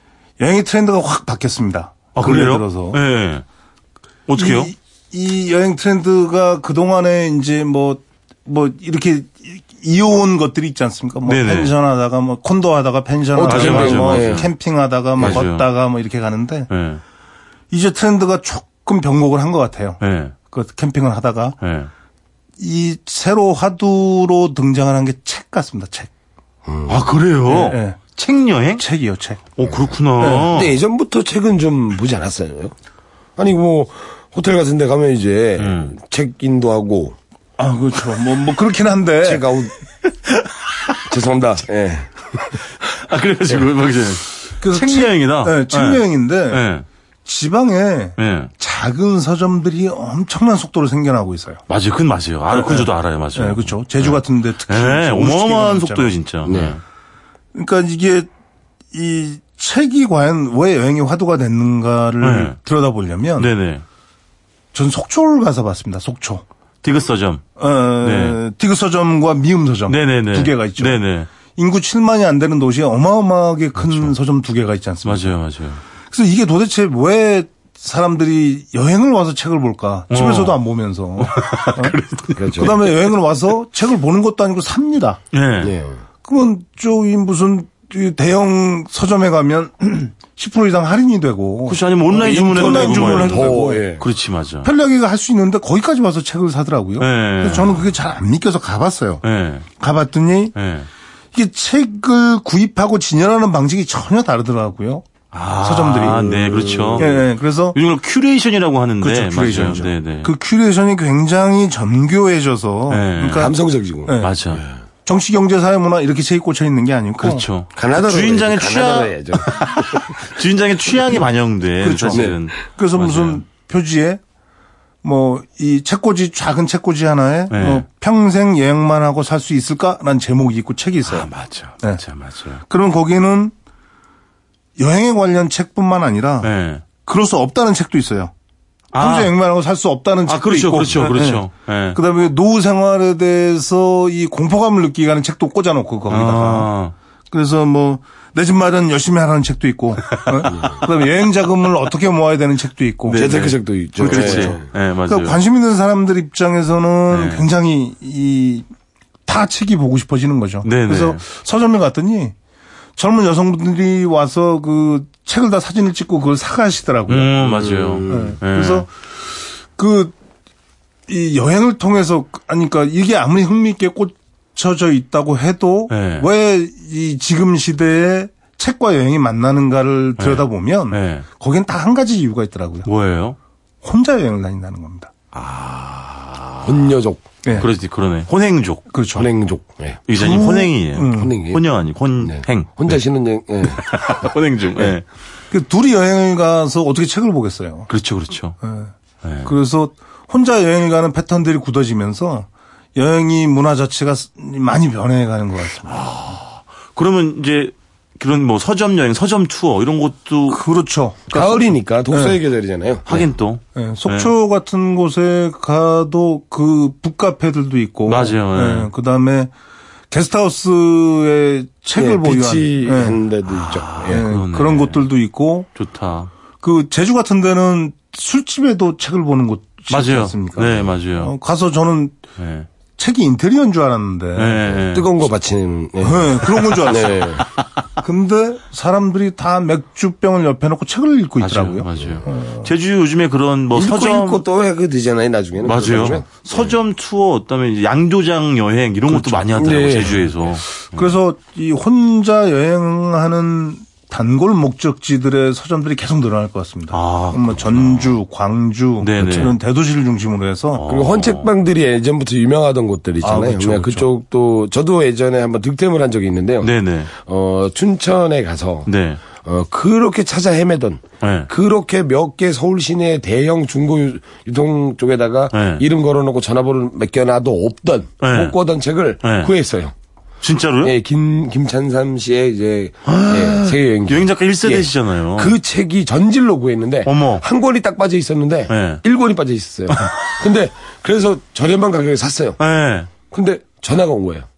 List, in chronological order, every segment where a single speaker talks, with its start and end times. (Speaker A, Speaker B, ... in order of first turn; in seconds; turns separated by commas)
Speaker A: 0.4-3.0, Speaker B: 2.1-3.4, Speaker B: 4.3-4.7, Speaker A: 4.4-16.7, Speaker B: 11.2-11.7, Speaker C: 13.4-14.5, Speaker B: 13.4-14.5, Speaker C: 15.2-15.4, Speaker B: 15.2-15.7, Speaker B: 16.7-17.0, Speaker A: 17.7-21.6, Speaker B: 20.0-20.3, Speaker B: 21.6-21.9, Speaker A: 22.6-26.1, Speaker C: 26.6-27.1, Speaker B: 26.9-28.8, Speaker A: 27.5-28.0, Speaker A: 28.8-29.4, Speaker B: 29.6-30.8, Speaker A: 30.2-30.5, Speaker C: 30.5-32.7, Speaker C: 33.4-37.2, Speaker B: 35.6-36.0, Speaker A: 37.6-39.5, Speaker C: 39.2-39.7, Speaker C: 41.1-42.6, Speaker B: 42.8-46.9, Speaker A: 44.6-46.6, Speaker A: 47.2-51.6, Speaker B: 48.2-48.5, Speaker B: 51.7-56.8, Speaker A: 52.5-56.1, Speaker C: 56.5-56.8, Speaker A: 57.5-58.3, Speaker A: 58.9-63.5, Speaker B: 62.2-62.6, Speaker B: 63.4-63.8, Speaker A: 64.7-66.4, Speaker B: 66.8-68.4, Speaker A: 67.6-71.0, Speaker B: 69.9-71.3, Speaker A: 71.5-75.4, Speaker B: 73.8-74.1, Speaker B: 75.0-75.8, Speaker A: 76.1-82.0, Speaker B: 80.1-80.6, Speaker B: 81.2-82.9, Speaker C: 82.4-82.8, Speaker A: 82.5-85.2, Speaker B: 85.3-85.8, Speaker C: 85.6-86.0, Speaker A: 86.2-93.9, Speaker B: 91.7-94.7, Speaker C: 92.2-94.1, Speaker A: 94.6-99.2, Speaker B: 97.0-97.9, Speaker B: 99.2-99.7, Speaker A: 99.8-100.5, Speaker B: 100.5-100.9, Speaker A: 101.3-105.1, Speaker B: 105.3-110.3, Speaker A: 105.6-107.8, Speaker C: 106.5-107.1, Speaker A: 109.0-113.5, Speaker B: 112.9-113.5, Speaker C: 113.4-114.8, Speaker A: 114.1-114.3, Speaker B: 114.2-114.6, Speaker A: 115.0-117.5, Speaker B: 117.2-123.4, Speaker C: 117.8-120.2, Speaker A: 121.8-124.2, Speaker C: 122.1-122.4, Speaker A: 125.0-131.3, Speaker B: 127.5-127.8, Speaker B: 131.1-132.6, Speaker A: 132.7-133.5, Speaker A: 134.8-136.5, Speaker B: 136.4-136.8, Speaker A: 137.0-138.3, Speaker B: 138.9-139.3, Speaker A: 139.0-146.7, Speaker B: 140.3-142.0, Speaker B: 146.1-146.9, Speaker A: 147.3-153.3, Speaker B: 150.3-150.7, Speaker C: 150.5-150.8, Speaker B: 153.1-155.4, Speaker C: 153.2-154.7, Speaker A: 154.0-158.7, Speaker B: 157.1-157.4, Speaker A: 159.3-162.3, Speaker B: 160.6-161.2, Speaker A: 163.0-169.1, Speaker B: 167.1-168.9, Speaker C: 167.7-168.3, Speaker A: 169.7-170.2, Speaker A: 171.1-182.9, Speaker B: 175.9-176.3, Speaker B: 180.2-181.3, Speaker B: 182.9-183.4, Speaker A: 183.8-185.1, Speaker B: 185.3-186.9, Speaker C: 186.6-187.3, Speaker B: 187.6-188.9, Speaker A: 188.9-189.3, Speaker C: 189.2-190.1, Speaker B: 190.1-193.0, Speaker A: 190.1-191.3, Speaker C: 191.1-191.6, Speaker C: 192.2-194.9, Speaker B: 193.6-195.1, Speaker A: 195.5-197.9, Speaker B: 197.9-198.6, Speaker A: 198.6-198.9, Speaker B: 199.2-199.5, Speaker A: 199.4-206.1, Speaker B: 205.8-210.6, Speaker A: 210.5-212.4, Speaker C: 211.3-213.3, Speaker B: 213.1-214.3, Speaker A: 213.8-219.5, Speaker B: 218.1-218.9, Speaker A: 220.1-223.2, Speaker C: 222.0-224.2, Speaker B: 223.5-225.0, Speaker A: 224.1-225.7, Speaker B: 225.8-226.3, Speaker A: 226.6-232.2, Speaker B: 229.9-231.3, Speaker B: 232.4-232.7, Speaker A: 233.0-234.8, Speaker B: 234.4-235.2, Speaker C: 234.9-237.4, Speaker A: 236.0-237.4, Speaker B: 236.6-237.5, Speaker A: 238.0-242.7, Speaker B: 241.4-244.4, Speaker C: 242.0-242.2, Speaker C: 243.7-246.7, Speaker B: 245.6-251.1, Speaker C: 249.1-250.2, Speaker A: 249.2-249.5, Speaker A: 250.8-260.9, Speaker B: 256.9-258.1, Speaker B: 259.0-259.6, Speaker B: 260.7-261.5, Speaker C: 260.9-279.9, Speaker A: 263.2-264.1, Speaker B: 266.6-267.1, Speaker B: 268.9-269.2, Speaker B: 271.2-271.5, Speaker B: 275.5-275.8, Speaker B: 278.2-278.6, Speaker B: 279.2-279.5, Speaker B: 280.4-280.9, Speaker C: 280.8-292.6, Speaker B: 283.1-285.6, Speaker B: 287.1-287.4, Speaker B: 288.7-289.0, Speaker B: 289.9-290.4, Speaker B: 292.6-293.1, Speaker C: 293.3-294.5